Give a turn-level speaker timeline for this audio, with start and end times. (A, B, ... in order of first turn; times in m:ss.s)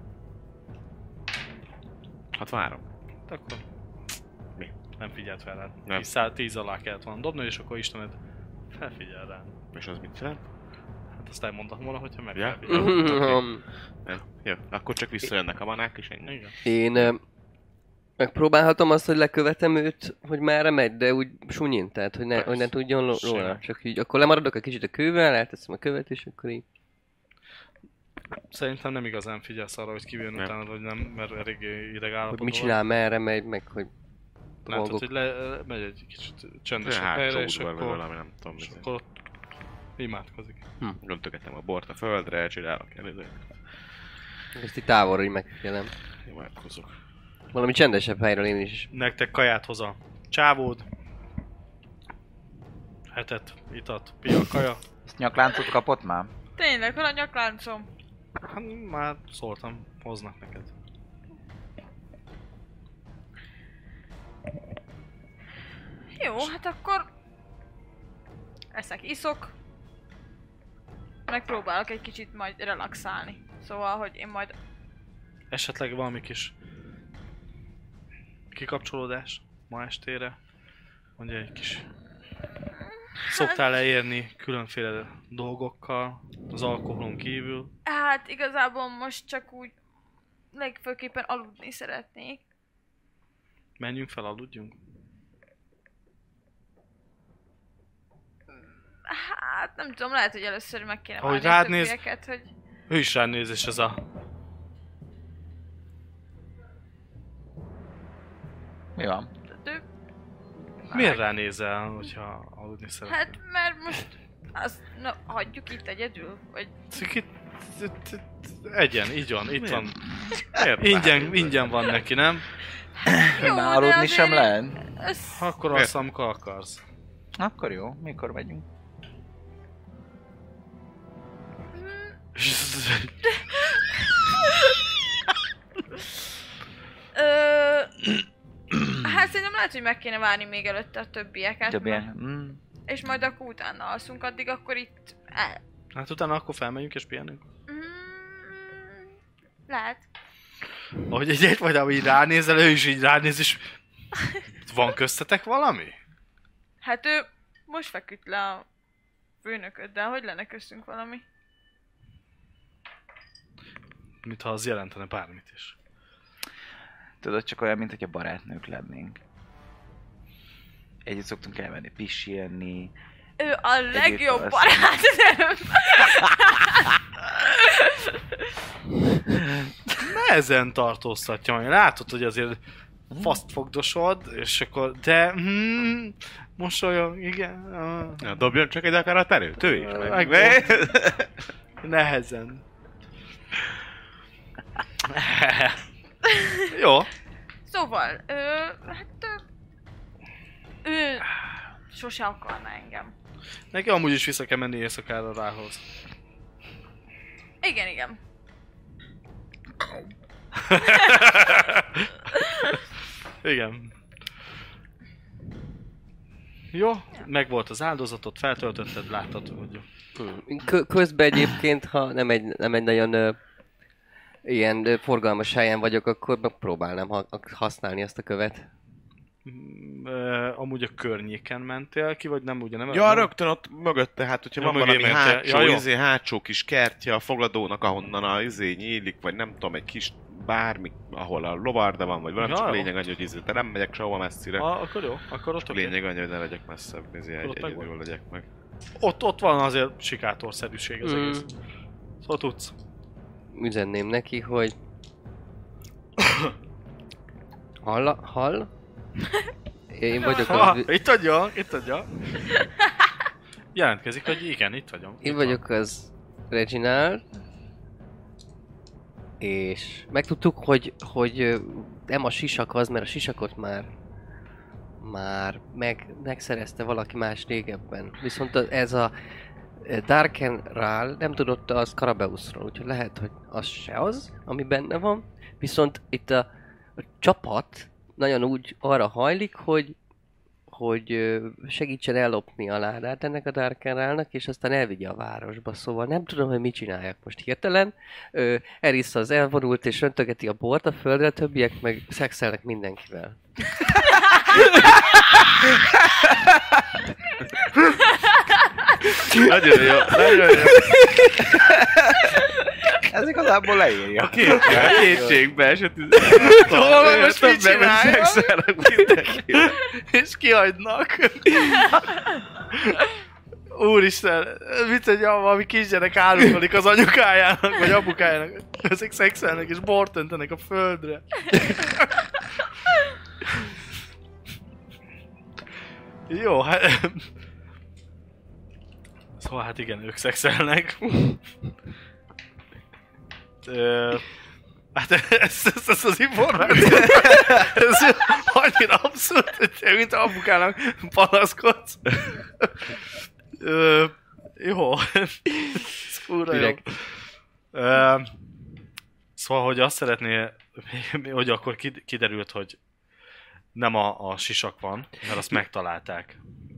0:02.3-0:02.8 A
0:03.3-0:03.6 B
0:05.0-0:08.2 B
0:08.7-0:09.5 B
0:09.7-0:10.4 A
0:11.1-0:13.4 B
0:12.3-0:13.4 A
0:12.7-0:13.6 C
0:14.0-0:16.4 A
0:16.2-0:16.5 B
0:16.6-0:17.2 C
0:18.2-0:26.6 C
0:22.4-0:22.6 A
0:23.3-0:23.5 A
0:28.5-0:32.8 B
0:32.3-0:33.9 C
0:34.6-0:38.0 B
0:34.7-0:35.0 C
0:36.8-0:38.8 A
0:38.6-0:39.1 B
0:40.0-0:40.6 B
0:41.0-0:43.4 A
0:44.5-0:45.9 C
0:46.2-0:46.9 A
0:47.5-0:48.9 C
0:48.9-0:50.8 B
0:53.1-0:54.8 B
0:55.0-0:56.3 D
0:56.6-0:57.9 E
0:58.5-1:00.7 B
1:06.2-1:07.1 E
1:08.7-1:09.5 E
1:11.3-1:14.5 E
1:15.5-1:16.5 B
1:18.5-1:20.4 B
1:21.2-1:21.8 B
1:23.2-1:23.6 E
1:23.2-1:27.7 B
1:27.8-1:29.7 E
1:30.5-1:32.4 E
1:33.8-1:34.8 B
1:39.0-1:42.5 E
1:41.2-1:42.0 B
1:42.9-1:44.0 B
1:49.0-1:49.3 D
1:49.5-1:49.8 E
1:50.9-1:51.2 E
1:50.9-1:53.4 B
1:53.1-1:56.9 E
1:56.9-2:00.0 B
1:59.6-2:02.0 A
2:00.6-2:02.5 B
2:03.0-2:05.4 E
2:03.1-2:04.8 D
2:05.3-2:06.8 B
2:07.4-2:08.6 D
2:11.7-2:12.1 E
2:12.3-2:13.2 B
2:13.2-2:14.8 E
2:17.1-2:18.1 E
2:19.0-2:22.1 E
2:21.7-2:22.6 D
2:22.9-2:25.6 E
2:25.9-2:27.4 B
2:27.7-2:29.0 E
2:29.7-2:30.1 E
2:31.1-2:33.7 B
2:34.6-2:36.0 B
2:36.8-2:38.6 E
2:39.4-2:41.2 E
2:44.2-2:45.8 B
2:47.2-2:49.2 D
2:51.0-2:52.9 D
2:53.4-2:58.5 E
2:53.9-2:54.7 D
3:00.0-3:02.6 B
3:03.1-3:03.4 D
3:03.1-3:08.4 B
3:08.2-3:11.3 A
3:09.7-3:10.9 B
3:11.8-3:12.6 B
3:15.0-3:15.8 B
3:16.2-3:16.7 E
3:16.7-3:17.1 B
3:17.6-3:19.4 E
3:20.8-3:21.3 E
3:21.9-3:23.1 E
3:23.7-3:25.8 B
3:27.6-3:28.2 E
3:30.5-3:32.7 B
3:30.8-3:31.2 E
3:32.3-3:32.8 E
3:33.4-3:34.0 B
3:36.7-3:39.8 B
3:40.2-3:43.4 C
3:44.4-3:48.7 C
3:49.4-3:53.3 B
3:52.9-4:04.7 A
3:54.6-3:55.8 B
4:02.4-4:02.9 B
4:04.6-4:06.0 B
4:05.6-4:08.4 A
4:07.4-4:07.9 B
4:09.0-4:11.5 B
4:11.0-4:11.5 C
4:12.2-4:12.7 B
4:13.5-4:14.7 C
4:16.2-4:16.5 B
4:17.8-4:18.7 C
4:19.9-4:20.9 C
4:20.2-4:20.7 E
4:20.3-4:22.4 B
4:22.5-4:23.1 E
4:23.7-4:25.6 B
4:25.2-4:27.2 C
4:29.4-4:33.9 C
4:35.0-4:39.1 C
4:39.8-4:46.5 C
4:47.0-4:50.0 C
4:50.7-5:03.7 C
5:04.5-5:05.0 C
5:06.1-5:06.7 D
5:09.2-5:11.1 A
5:09.2-5:09.5 C
5:11.4-5:12.1 D
5:13.0-5:15.4 D
5:14.2-5:19.8 A
5:14.6-5:15.0 B
5:16.2-5:22.0 B
5:22.7-5:23.0 B
5:23.7-5:32.1 B
5:36.3-5:37.3 B
5:39.4-5:41.4 B
5:43.6-5:44.2 B
5:44.9-5:52.1 B
5:53.6-5:57.0 B
5:56.5-5:56.8 C
5:57.7-5:58.3 B
5:59.4-6:02.8 B
6:03.7-6:06.4 B